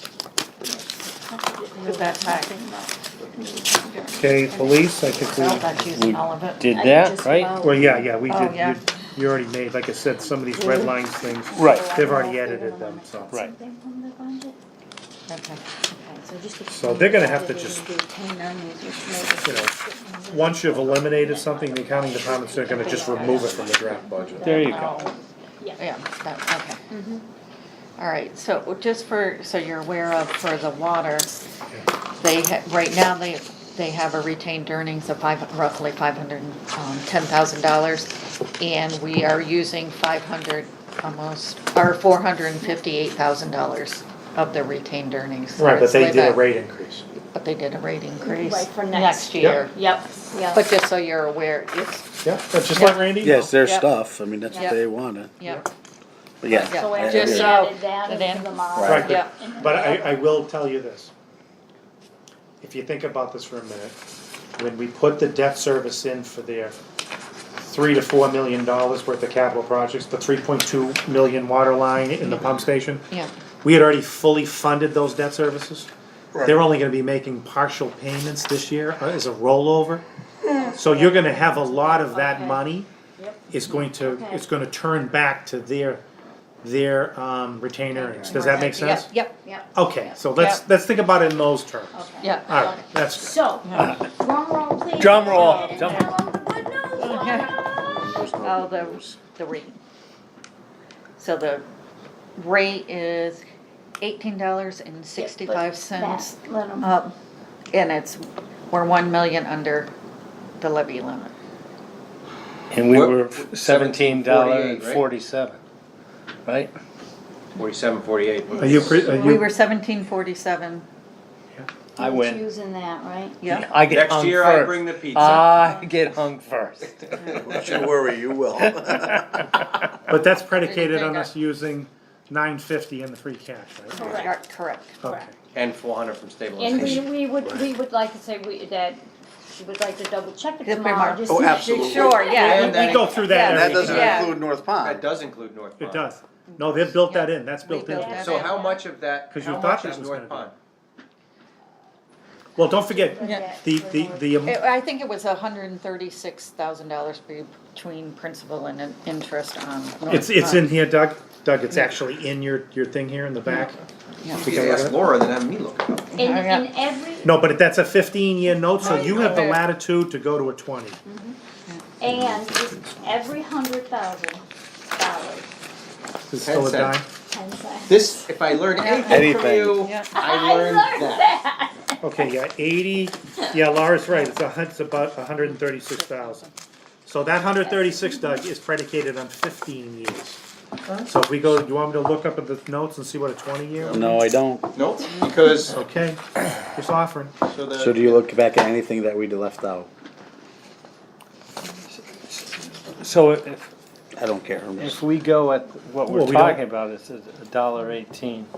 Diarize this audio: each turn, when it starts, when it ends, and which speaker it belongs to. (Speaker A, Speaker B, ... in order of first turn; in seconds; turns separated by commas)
Speaker A: 0.6-4.5, Speaker B: 1.8-2.5, Speaker C: 4.2-5.8, Speaker B: 4.4-6.7, Speaker D: 5.9-8.0, Speaker A: 6.7-7.8, Speaker C: 7.6-13.4, Speaker B: 8.3-8.8, Speaker A: 10.5-14.6, Speaker D: 11.6-11.9, Speaker B: 15.3-15.8, Speaker A: 15.9-25.8, Speaker C: 16.7-17.9, Speaker C: 19.4-19.8, Speaker C: 20.3-24.8, Speaker B: 22.8-23.4, Speaker E: 23.6-24.4, Speaker D: 24.4-25.1, Speaker B: 25.8-26.8, Speaker A: 26.9-27.3, Speaker B: 28.0-31.3, Speaker B: 32.2-46.5, Speaker C: 45.6-47.0, Speaker B: 47.3-49.8, Speaker A: 48.2-50.6, Speaker B: 50.5-52.1, Speaker C: 52.2-53.5, Speaker B: 52.7-53.9, Speaker F: 53.2-55.3, Speaker B: 54.5-54.8, Speaker B: 55.4-55.7, Speaker F: 56.4-57.6, Speaker A: 56.6-60.4, Speaker B: 56.7-59.3, Speaker F: 58.8-59.2, Speaker C: 58.9-61.1, Speaker C: 62.6-64.0, Speaker C: 64.6-66.8, Speaker C: 67.6-73.1, Speaker C: 73.6-75.9, Speaker C: 76.4-80.0, Speaker A: 80.6-84.5, Speaker C: 80.7-82.9, Speaker C: 83.5-86.0, Speaker C: 86.6-89.1, Speaker B: 88.0-89.4, Speaker A: 88.0-90.2, Speaker C: 89.7-93.5, Speaker B: 90.3-90.6, Speaker A: 91.9-97.7, Speaker B: 92.2-92.8, Speaker B: 93.6-93.9, Speaker D: 93.7-94.0, Speaker D: 95.0-96.2, Speaker B: 97.0-97.6, Speaker F: 97.7-99.2, Speaker B: 98.4-99.8, Speaker B: 101.2-101.7, Speaker B: 102.4-103.4, Speaker B: 104.0-107.2, Speaker A: 105.2-106.9, Speaker B: 107.7-109.9, Speaker B: 110.6-111.3, Speaker D: 112.7-115.6, Speaker E: 112.8-115.0, Speaker D: 116.5-116.8, Speaker E: 117.6-119.2, Speaker C: 118.6-119.5, Speaker A: 118.7-119.4, Speaker B: 118.8-120.8, Speaker D: 122.0-122.5, Speaker A: 122.0-123.4, Speaker B: 123.4-123.7, Speaker D: 123.5-127.4, Speaker E: 123.9-125.4, Speaker A: 125.5-125.8, Speaker F: 127.3-129.5, Speaker E: 127.5-127.8, Speaker D: 128.6-129.7, Speaker C: 130.1-134.2, Speaker B: 130.3-131.3, Speaker A: 133.9-134.3, Speaker B: 134.0-135.0, Speaker C: 135.0-135.3, Speaker A: 135.0-135.3, Speaker E: 135.5-137.2, Speaker A: 136.6-144.1, Speaker C: 136.8-137.6, Speaker B: 140.6-144.3, Speaker F: 141.3-142.3, Speaker E: 141.5-143.1, Speaker C: 142.2-144.2, Speaker F: 143.3-145.1, Speaker E: 144.1-146.1, Speaker C: 145.8-148.5, Speaker B: 146.5-148.7, Speaker A: 147.9-148.8, Speaker E: 148.2-150.5, Speaker C: 149.3-150.5, Speaker C: 152.6-154.6, Speaker A: 152.6-154.5, Speaker B: 153.2-153.5, Speaker B: 154.4-160.8, Speaker C: 160.0-163.8, Speaker B: 163.5-164.5, Speaker E: 164.3-166.2, Speaker C: 164.4-165.0, Speaker B: 166.1-166.7, Speaker A: 166.2-167.5, Speaker C: 167.2-171.0, Speaker B: 168.8-169.6, Speaker E: 168.9-169.5, Speaker A: 171.1-171.4, Speaker A: 172.0-175.5, Speaker C: 176.3-177.1, Speaker E: 176.4-177.0, Speaker A: 177.2-178.6, Speaker E: 177.9-181.3, Speaker B: 178.7-180.1, Speaker F: 179.0-179.8, Speaker A: 180.1-182.3, Speaker C: 182.0-186.4, Speaker B: 185.4-186.5, Speaker C: 187.1-190.4, Speaker C: 191.1-194.1, Speaker F: 193.9-194.7, Speaker E: 194.7-195.8, Speaker C: 195.7-197.4, Speaker E: 197.4-198.3, Speaker F: 197.8-199.9, Speaker D: 202.0-203.7, Speaker F: 204.2-205.0, Speaker D: 204.8-208.5, Speaker C: 206.1-206.6